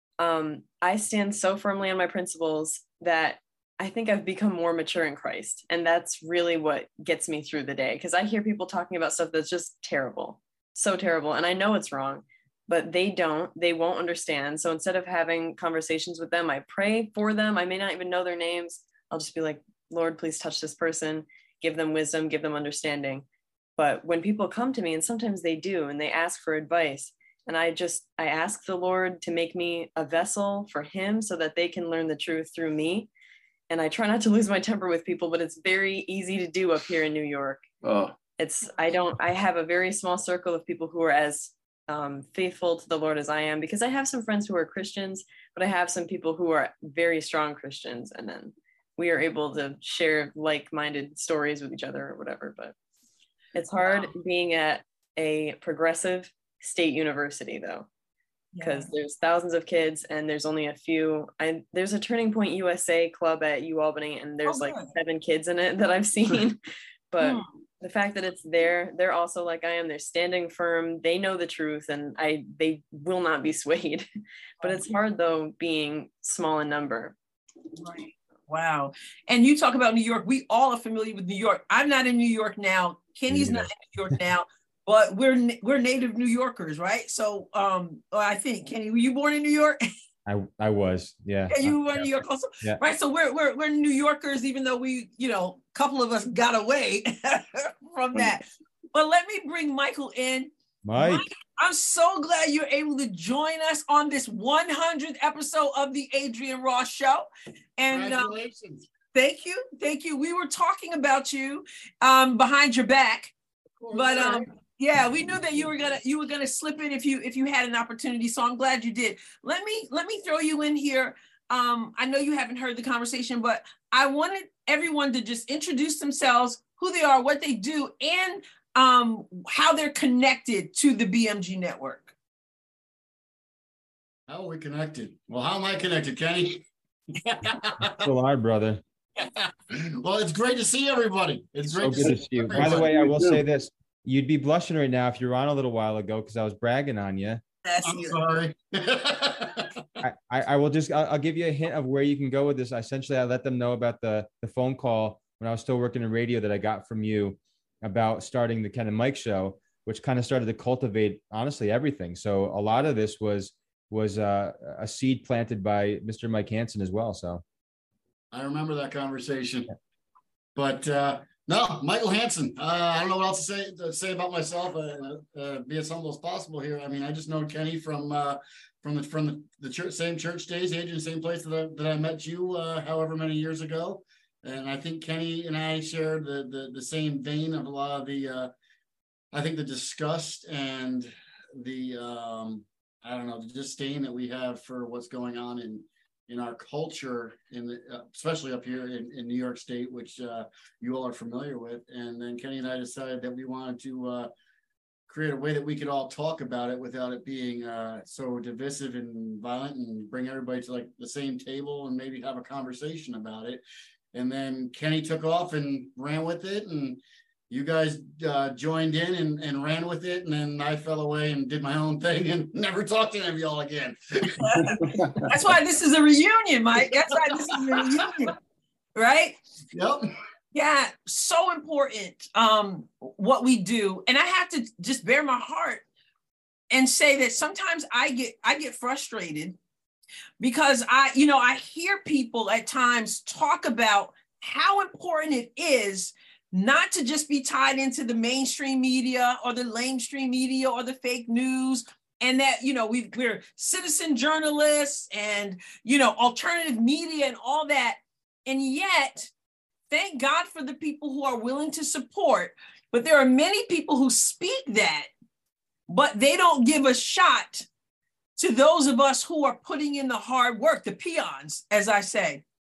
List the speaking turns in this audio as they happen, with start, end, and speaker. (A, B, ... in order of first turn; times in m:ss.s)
0:00.2-0:23.3 A
0:23.8-0:33.1 A
0:33.7-0:37.6 A
0:37.8-0:38.2 B
0:38.4-0:52.7 A
0:53.6-0:57.9 A
0:53.8-0:54.1 C
0:58.5-0:58.9 C
0:58.6-1:06.6 A
1:04.5-1:04.9 C
1:07.1-1:14.1 A
1:07.2-1:07.5 C
1:14.6-1:17.2 A
1:17.8-1:29.8 C
1:23.3-1:23.7 D
1:30.3-1:32.8 D
1:31.5-1:48.4 C
1:40.8-1:41.3 D
1:47.9-1:48.9 E
1:49.1-1:53.3 C
1:53.8-1:54.5 E
1:53.9-2:12.1 C
2:14.3-2:16.6 E
2:17.2-2:18.1 E
2:17.8-2:18.8 D
2:19.2-2:23.1 E
2:21.7-2:27.4 D
2:22.0-2:23.4 B
2:27.6-2:28.2 C
2:27.8-2:29.7 E
2:30.0-2:47.4 D
2:48.3-2:49.7 E
2:50.6-3:08.5 E
3:09.3-3:24.3 E
3:25.1-3:44.3 E
3:44.4-3:48.4 C
3:44.6-3:45.3 B
3:47.3-3:47.8 E
3:49.0-3:49.4 C
3:49.7-3:50.0 E
3:50.5-3:55.8 C
3:56.7-3:59.6 C
4:00.4-4:19.3 C
4:19.9-4:25.1 C
4:25.9-4:27.7 C
4:28.4-4:32.4 C